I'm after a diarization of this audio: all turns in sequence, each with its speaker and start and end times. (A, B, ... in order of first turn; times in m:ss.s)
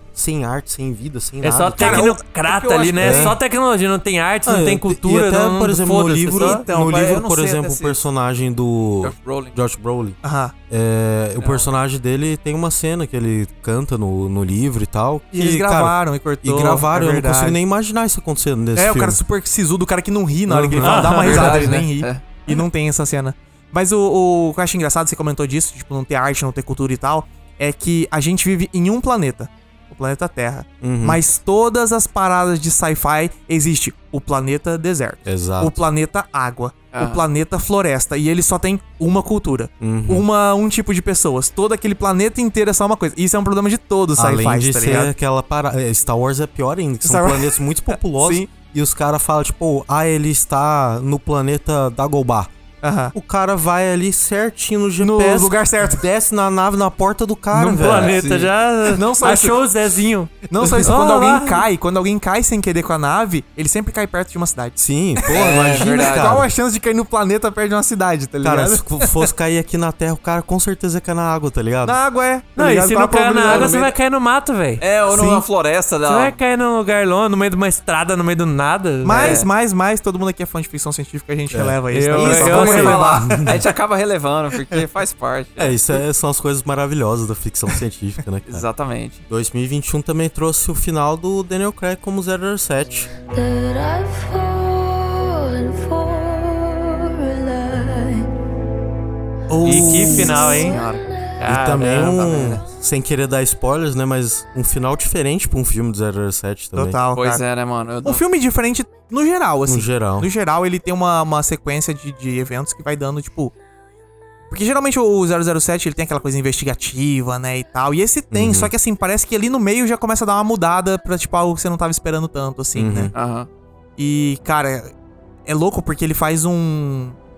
0:00.1-0:02.2 A
0:01.4-0:06.6 B
0:01.8-0:03.4 C
0:01.8-0:02.1 D
0:03.0-0:03.4 A
0:04.4-0:10.2 A
0:06.4-0:08.0 C
0:09.0-0:09.6 C
0:10.2-0:10.5 D
0:10.7-0:19.2 A
0:11.4-0:11.7 C
0:15.3-0:17.6 D
0:18.8-0:45.1 D
0:20.5-0:21.1 A
0:20.8-0:21.8 B
0:20.8-0:22.2 C
0:30.8-0:31.2 A
0:35.2-0:35.8 A
0:36.9-0:37.2 C
0:39.8-0:40.3 A
0:44.1-0:52.5 A
0:47.0-0:48.5 D
0:52.8-0:53.1 D
0:53.1-0:58.2 A
0:55.0-0:56.0 D
0:57.5-1:01.6 B
0:58.0-0:58.5 C
0:58.9-0:59.6 D
1:00.4-1:09.2 D
1:04.8-1:06.5 A
1:05.3-1:06.4 C
1:08.4-1:12.0 A
1:11.8-1:13.8 D
1:12.6-1:14.8 B
1:13.4-1:13.9 C
1:14.8-1:16.4 C
1:15.1-1:15.4 D
1:16.0-1:19.4 B
1:19.0-1:23.5 D
1:19.1-1:19.5 C
1:21.5-1:21.8 A
1:21.9-1:23.2 B
1:22.2-1:25.8 C
1:22.6-1:23.5 A
1:25.6-1:28.6 A
1:28.5-1:29.2 C
1:29.3-1:33.1 A
1:33.3-1:38.3 E
1:39.5-1:40.4 D
1:39.6-1:40.8 B
1:39.7-1:40.3 A
1:39.9-1:41.5 E
1:40.4-1:41.1 C
1:41.4-1:42.3 B
1:41.5-1:47.0 A
1:42.1-1:42.6 C
1:46.8-1:47.4 D
1:47.1-1:48.2 C
1:48.0-1:53.5 D
1:49.7-1:50.3 A
1:54.5-2:03.1 D
1:58.3-1:58.7 A
2:02.7-2:03.1 A
2:03.1-2:03.5 C
2:04.0-2:04.9 D
2:05.4-2:07.2 D